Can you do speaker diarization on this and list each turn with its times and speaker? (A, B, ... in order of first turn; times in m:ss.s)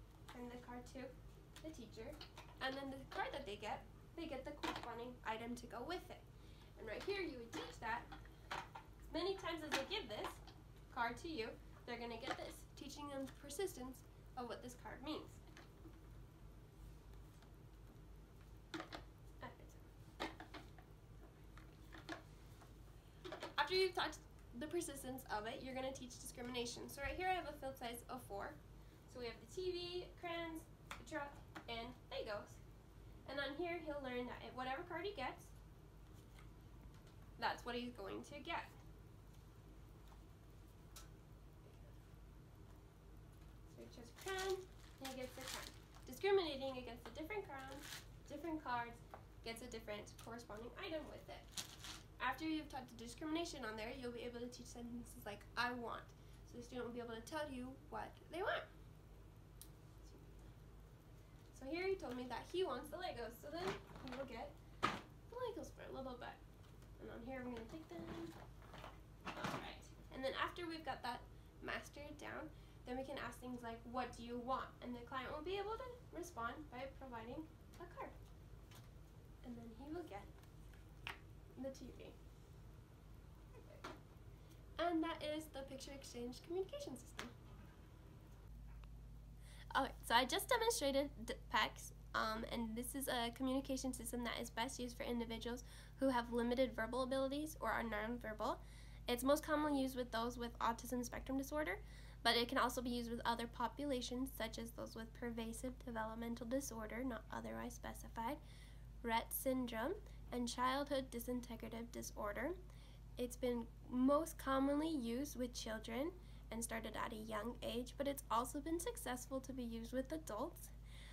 0:00.3-0:06.2 A
0:06.8-0:08.1 A
0:09.0-0:15.4 A
0:19.4-0:19.9 A
0:23.6-0:32.6 A
0:33.3-0:35.5 A
0:37.4-0:38.8 A
0:41.6-0:42.0 A
0:43.7-0:51.5 A
0:52.2-0:58.7 A
1:00.0-1:00.5 A
1:01.5-1:04.5 A
1:05.3-1:06.4 A
1:07.0-1:08.4 A
1:09.3-1:18.2 A
1:19.4-1:20.3 A
1:21.5-1:22.2 A
1:24.8-1:27.3 A
1:29.7-1:48.4 A
1:49.0-1:52.6 A
1:53.2-2:00.7 A